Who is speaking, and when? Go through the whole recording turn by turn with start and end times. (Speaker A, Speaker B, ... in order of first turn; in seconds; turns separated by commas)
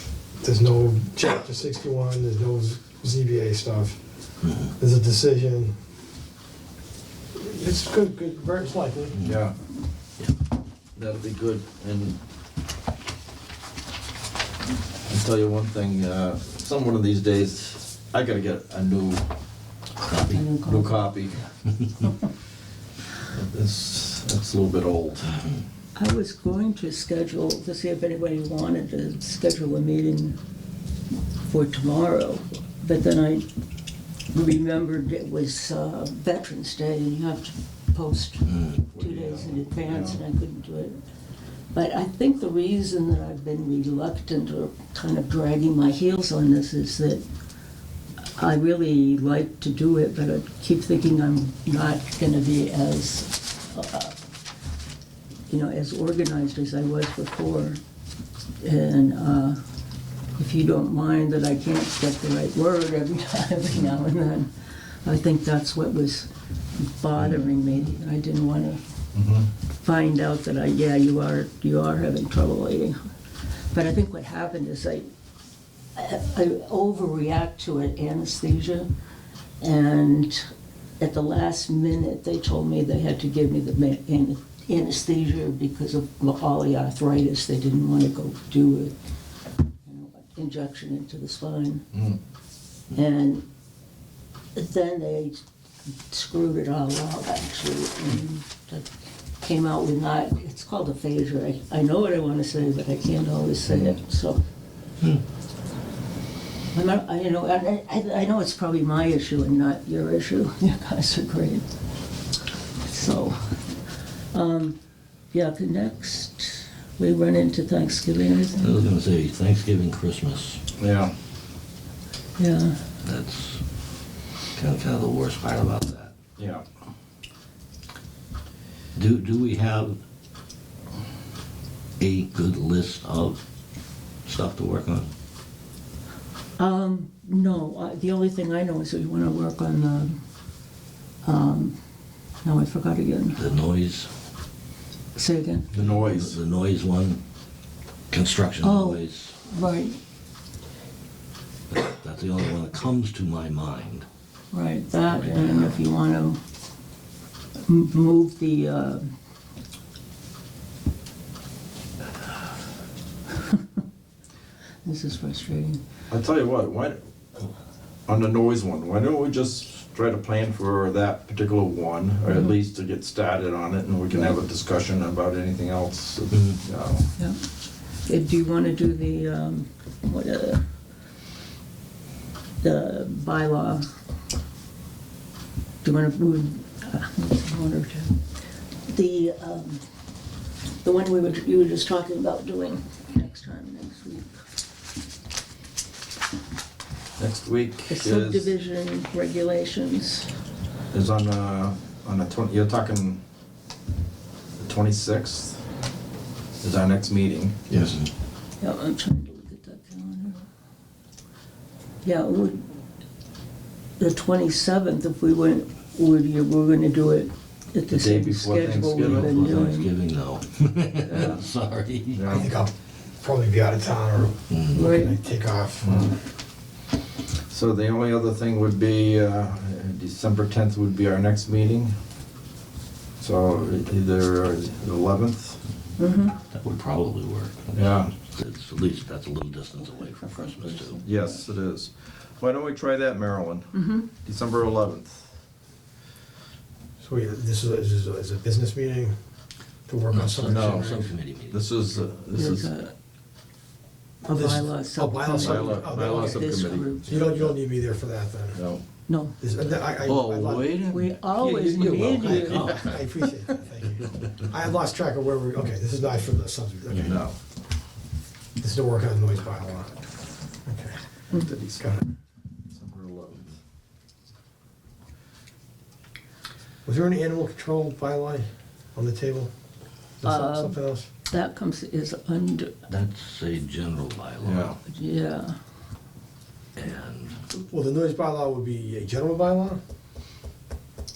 Speaker A: 0.4-4.0, Speaker B: 4.4-4.7, Speaker A: 4.8-5.7, Speaker A: 7.3-9.2, Speaker B: 9.2-9.4, Speaker C: 9.2-9.5, Speaker C: 10.9-12.2, Speaker C: 15.1-19.3, Speaker B: 20.1-20.4, Speaker D: 20.3-21.1, Speaker C: 20.6-21.4, Speaker C: 23.3-25.3, Speaker D: 25.9-30.4, Speaker D: 31.4-33.5, Speaker D: 34.3-41.0, Speaker B: 38.5-38.8, Speaker C: 38.9-40.2, Speaker D: 41.7-47.2, Speaker D: 48.4-54.1, Speaker D: 55.5-57.8, Speaker D: 58.6-59.6, Speaker D: 60.4-68.8, Speaker C: 69.1-69.5, Speaker D: 69.8-73.0, Speaker D: 73.7-75.1, Speaker D: 76.0-78.9, Speaker D: 79.6-80.5, Speaker D: 81.0-89.0, Speaker D: 89.8-91.9, Speaker D: 92.9-93.5, Speaker D: 94.5-95.4, Speaker D: 96.1-98.9, Speaker D: 99.4-104.4, Speaker D: 106.7-111.7, Speaker D: 112.8-113.6, Speaker D: 114.3-114.8, Speaker D: 115.3-118.8, Speaker B: 118.6-120.6, Speaker C: 120.8-121.1, Speaker D: 122.4-122.8, Speaker B: 123.0-123.6, Speaker B: 124.5-126.1, Speaker C: 126.4-126.6, Speaker B: 128.9-130.0, Speaker B: 132.0-133.4, Speaker B: 134.2-135.1, Speaker D: 136.6-140.2, Speaker D: 141.2-141.8, Speaker D: 142.4-143.4, Speaker B: 143.3-144.1, Speaker D: 145.1-145.7, Speaker C: 145.7-146.4, Speaker B: 145.8-147.2, Speaker B: 148.1-149.4, Speaker D: 148.6-150.0, Speaker B: 151.7-154.1, Speaker D: 154.5-156.4, Speaker B: 155.1-155.5, Speaker D: 157.6-159.1, Speaker D: 164.8-165.8, Speaker C: 166.1-167.5, Speaker C: 168.1-177.1, Speaker D: 172.3-172.5, Speaker D: 178.0-180.7, Speaker D: 182.6-183.9, Speaker D: 185.8-188.2, Speaker D: 188.9-189.8, Speaker D: 190.8-194.3, Speaker C: 197.2-198.5, Speaker D: 197.9-200.3, Speaker C: 200.9-203.2, Speaker C: 204.6-205.6, Speaker C: 206.6-207.6, Speaker A: 207.7-208.0, Speaker B: 207.7-208.0, Speaker D: 208.6-210.4, Speaker D: 212.0-212.8, Speaker D: 214.0-219.9, Speaker C: 217.9-219.6, Speaker B: 219.0-222.4, Speaker C: 221.1-221.4, Speaker C: 222.1-222.5, Speaker A: 222.3-226.2, Speaker B: 224.5-224.9, Speaker D: 224.7-225.2, Speaker C: 225.8-226.1, Speaker C: 227.5-231.9, Speaker C: 233.2-235.6, Speaker D: 236.0-236.3, Speaker B: 236.5-241.0, Speaker C: 237.7-238.1, Speaker D: 239.9-241.4, Speaker C: 241.0-245.2, Speaker D: 243.7-244.1, Speaker A: 247.0-249.1, Speaker A: 249.9-250.9, Speaker B: 250.1-251.6, Speaker C: 250.4-252.7, Speaker D: 252.3-252.9, Speaker D: 254.2-257.3, Speaker A: 254.3-256.4, Speaker C: 255.3-257.5, Speaker A: 257.1-258.6, Speaker C: 258.6-258.8, Speaker D: 259.1-259.4, Speaker A: 259.4-260.7, Speaker C: 260.0-261.1, Speaker D: 260.9-262.9, Speaker B: 261.3-263.1, Speaker A: 262.2-267.2, Speaker C: 266.9-267.4, Speaker A: 268.6-269.9, Speaker A: 270.7-271.0, Speaker C: 271.3-271.9, Speaker C: 272.7-273.5, Speaker A: 276.9-279.5, Speaker A: 280.2-281.1, Speaker D: 280.2-282.7, Speaker B: 282.9-284.7, Speaker C: 284.4-284.8, Speaker D: 284.9-285.6, Speaker B: 286.8-287.4, Speaker A: 287.5-289.8